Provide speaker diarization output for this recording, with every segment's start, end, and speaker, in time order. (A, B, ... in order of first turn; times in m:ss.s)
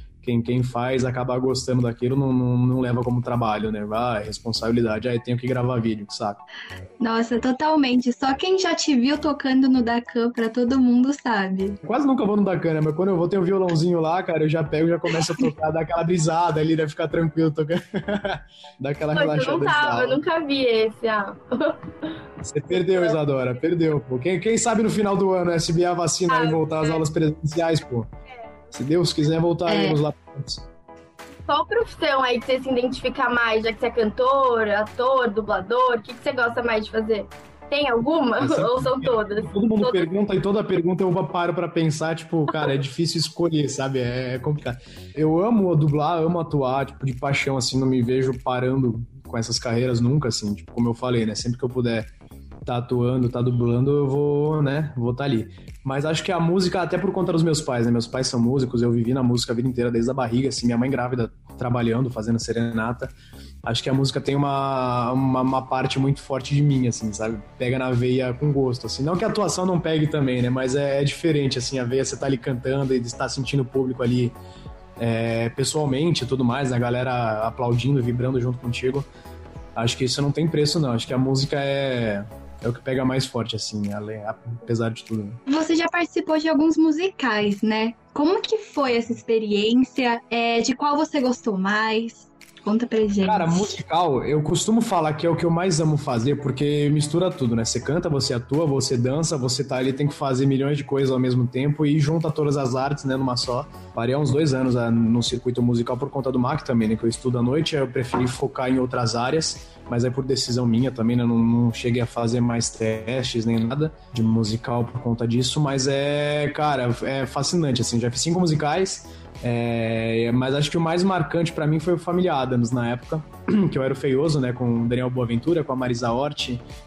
0:00.2-0:06.4 A
0:07.0-0:11.8 B
0:11.8-0:20.2 A
0:19.1-0:22.1 C
0:22.4-0:28.1 A
0:22.8-0:23.1 C
0:26.3-0:27.0 C
0:28.7-0:30.7 A
0:29.7-0:30.0 B
0:31.5-0:40.1 C
0:38.4-0:52.1 A
0:52.6-1:14.4 A
1:15.0-1:19.1 A
1:19.8-1:25.4 A
1:25.5-1:33.7 B
1:33.2-2:06.6 A